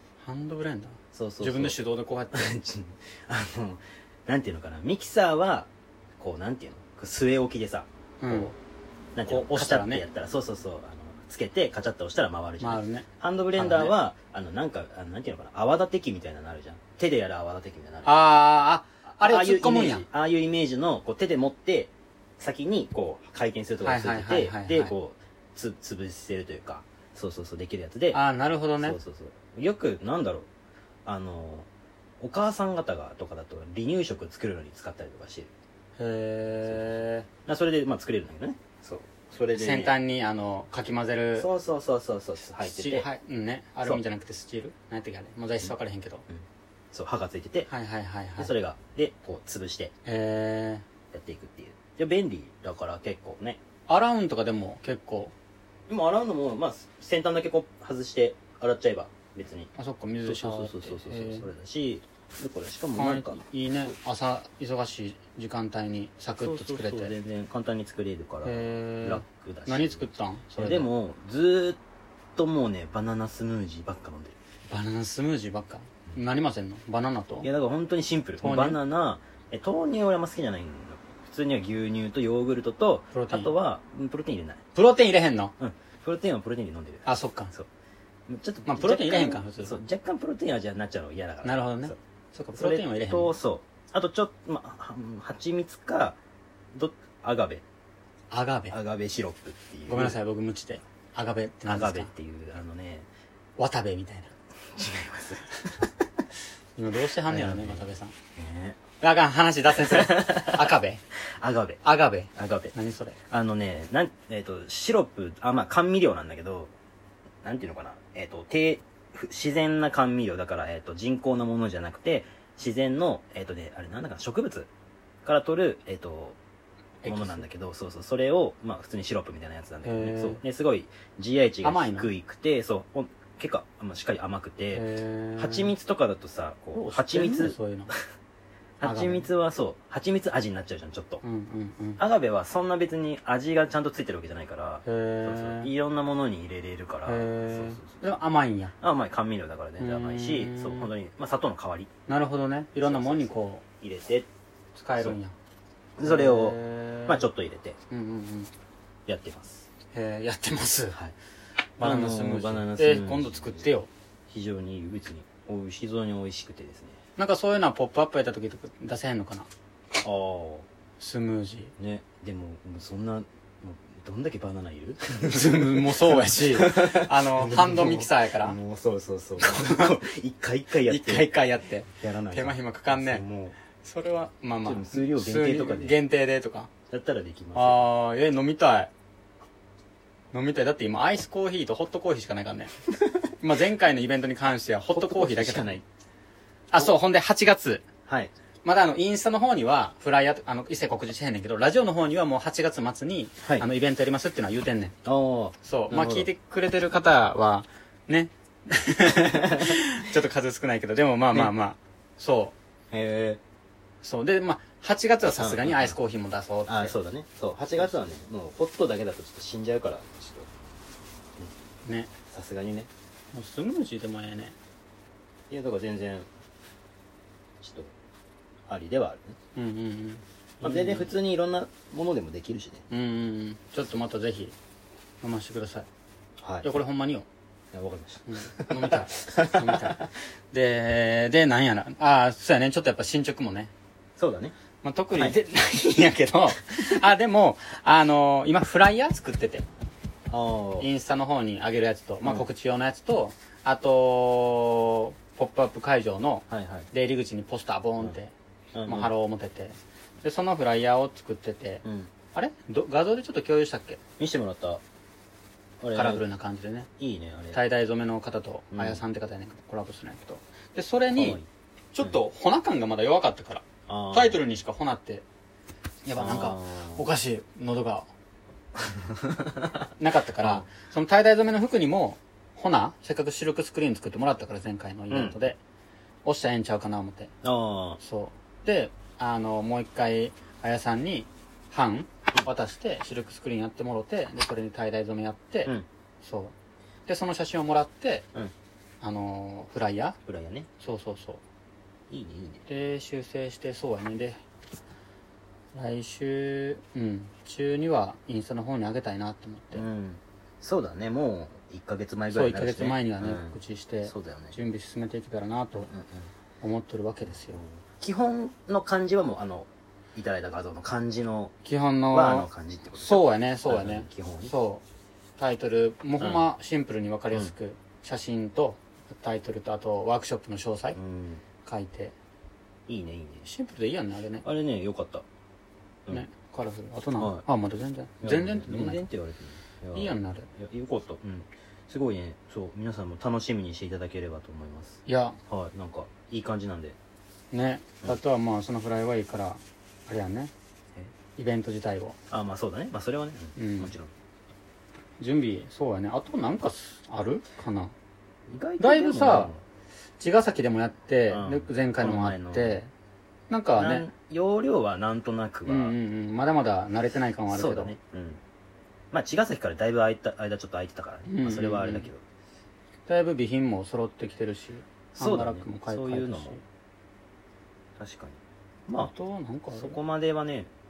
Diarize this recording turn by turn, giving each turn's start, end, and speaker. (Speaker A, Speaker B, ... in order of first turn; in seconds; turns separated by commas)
Speaker A: 0.2-2.5, Speaker B: 1.1-1.8, Speaker B: 2.3-8.6, Speaker A: 8.2-8.5, Speaker B: 9.2-18.2, Speaker A: 9.3-10.1, Speaker A: 12.6-13.9, Speaker A: 18.1-20.1, Speaker B: 19.1-28.2, Speaker A: 23.8-24.9, Speaker A: 28.1-29.0, Speaker B: 28.8-30.5, Speaker B: 31.1-31.7, Speaker B: 32.2-35.5, Speaker A: 36.0-37.3, Speaker B: 37.5-39.9, Speaker A: 39.6-41.5, Speaker B: 41.4-43.1, Speaker A: 42.6-46.2, Speaker B: 46.3-47.7, Speaker A: 47.7-48.5, Speaker B: 48.4-49.9, Speaker A: 50.0-50.9, Speaker B: 51.1-53.6, Speaker A: 53.9-55.3, Speaker B: 55.9-59.7, Speaker A: 59.8-61.5, Speaker B: 60.2-63.4, Speaker A: 63.0-67.1, Speaker B: 66.4-71.8, Speaker A: 68.4-70.9, Speaker B: 72.4-74.4, Speaker A: 74.7-77.5, Speaker B: 77.4-84.6, Speaker A: 78.4-78.8, Speaker A: 83.1-83.5, Speaker A: 84.8-85.5, Speaker B: 85.6-87.7, Speaker A: 87.1-87.5, Speaker B: 88.3-92.0, Speaker A: 88.7-89.8, Speaker A: 91.4-93.4, Speaker B: 92.5-96.2, Speaker B: 96.7-97.6, Speaker A: 98.3-98.8, Speaker B: 98.7-100.2, Speaker A: 99.9-102.1, Speaker B: 101.7-103.1, Speaker A: 103.6-104.3, Speaker B: 104.8-105.9, Speaker A: 106.8-108.2, Speaker B: 107.3-108.8, Speaker A: 109.0-111.0, Speaker B: 109.8-110.7, Speaker B: 111.4-111.8, Speaker A: 111.8-113.2, Speaker B: 112.4-112.7, Speaker B: 113.3-116.7, Speaker B: 117.4-124.7, Speaker B: 125.2-126.4, Speaker A: 127.0-127.5, Speaker B: 127.0-134.9, Speaker A: 129.8-130.4, Speaker A: 131.6-132.1, Speaker A: 134.7-135.7, Speaker B: 135.4-138.0, Speaker A: 136.8-137.9, Speaker B: 138.8-141.2, Speaker A: 138.8-139.3, Speaker A: 141.2-142.0, Speaker B: 142.0-148.1, Speaker A: 144.8-145.7, Speaker A: 147.1-148.8, Speaker B: 148.8-151.9, Speaker A: 149.8-150.9, Speaker A: 152.1-153.6, Speaker B: 152.8-154.3, Speaker A: 154.8-155.3, Speaker B: 156.0-157.8, Speaker A: 156.0-157.2, Speaker A: 157.9-158.5, Speaker B: 159.1-159.7, Speaker A: 159.9-161.0, Speaker A: 161.8-163.9, Speaker B: 161.8-163.7, Speaker B: 164.3-167.0, Speaker A: 167.2-169.5, Speaker B: 170.0-170.7, Speaker A: 171.0-171.7, Speaker B: 171.8-181.4, Speaker A: 175.3-178.6, Speaker A: 179.4-179.9, Speaker A: 180.8-183.2, Speaker B: 182.0-183.6, Speaker A: 183.8-186.7, Speaker B: 184.6-186.0, Speaker B: 186.9-187.8, Speaker A: 187.6-188.9, Speaker A: 190.3-192.7, Speaker A: 193.3-195.8, Speaker B: 194.9-195.8, Speaker A: 196.7-197.8, Speaker B: 198.1-198.3, Speaker A: 198.6-204.9, Speaker B: 205.1-206.3, Speaker A: 205.6-212.6, Speaker B: 209.2-209.8, Speaker B: 212.9-213.4, Speaker A: 214.0-216.9, Speaker B: 215.2-216.0, Speaker B: 216.7-220.5, Speaker A: 221.9-222.1, Speaker B: 222.3-222.9, Speaker A: 223.3-224.6, Speaker B: 225.5-226.3, Speaker B: 227.6-227.9, Speaker B: 228.7-229.4, Speaker A: 229.6-231.1, Speaker B: 230.6-232.8, Speaker A: 232.9-234.6, Speaker A: 235.2-235.9, Speaker B: 236.4-236.7, Speaker A: 236.6-237.3, Speaker B: 237.7-240.1, Speaker A: 238.3-243.7, Speaker B: 244.2-244.6, Speaker A: 244.8-249.7, Speaker B: 250.3-250.9, Speaker A: 250.8-258.3, Speaker B: 252.2-252.5, Speaker B: 256.5-256.9, Speaker B: 258.7-259.1, Speaker A: 258.9-264.0, Speaker B: 261.8-262.1, Speaker B: 264.2-264.8, Speaker B: 265.8-266.2, Speaker A: 265.9-266.9, Speaker B: 267.0-267.6, Speaker A: 267.5-271.4, Speaker B: 268.7-269.0, Speaker B: 271.1-271.5, Speaker A: 271.9-275.2, Speaker B: 273.9-274.4, Speaker B: 276.1-277.1, Speaker A: 276.1-278.1, Speaker B: 278.8-279.8, Speaker A: 280.0-285.6, Speaker B: 280.4-280.7, Speaker B: 285.1-285.4, Speaker A: 286.2-287.3, Speaker B: 287.4-288.0, Speaker A: 288.0-296.5, Speaker A: 297.1-298.3, Speaker A: 299.0-300.2, Speaker B: 300.3-300.7, Speaker A: 300.8-301.4, Speaker B: 302.1-302.6, Speaker A: 302.7-304.4, Speaker A: 305.7-309.9, Speaker B: 309.7-314.6, Speaker A: 312.3-315.9, Speaker B: 315.8-316.3, Speaker A: 316.6-317.6, Speaker B: 317.4-321.5, Speaker A: 321.6-324.8, Speaker B: 322.1-324.5, Speaker A: 325.4-331.0, Speaker B: 326.2-326.5, Speaker B: 330.9-331.4, Speaker A: 331.6-332.1, Speaker B: 332.9-333.5, Speaker A: 333.5-334.4, Speaker B: 334.4-335.2, Speaker A: 336.1-339.0, Speaker B: 337.2-337.4, Speaker B: 338.2-347.0, Speaker A: 339.9-340.5, Speaker A: 345.1-345.4, Speaker A: 347.5-350.5, Speaker A: 351.4-352.2, Speaker B: 352.3-354.1, Speaker A: 353.6-353.9, Speaker A: 355.2-357.9, Speaker B: 358.5-359.6, Speaker A: 358.8-359.5, Speaker A: 360.2-362.9, Speaker B: 361.3-362.8, Speaker A: 363.5-364.1, Speaker B: 363.8-366.0, Speaker A: 365.7-367.9, Speaker B: 367.5-368.4, Speaker B: 369.1-372.2, Speaker A: 371.3-372.1, Speaker A: 373.1-376.6, Speaker B: 375.1-376.6, Speaker B: 378.0-379.1, Speaker A: 379.0-380.0, Speaker B: 379.7-380.7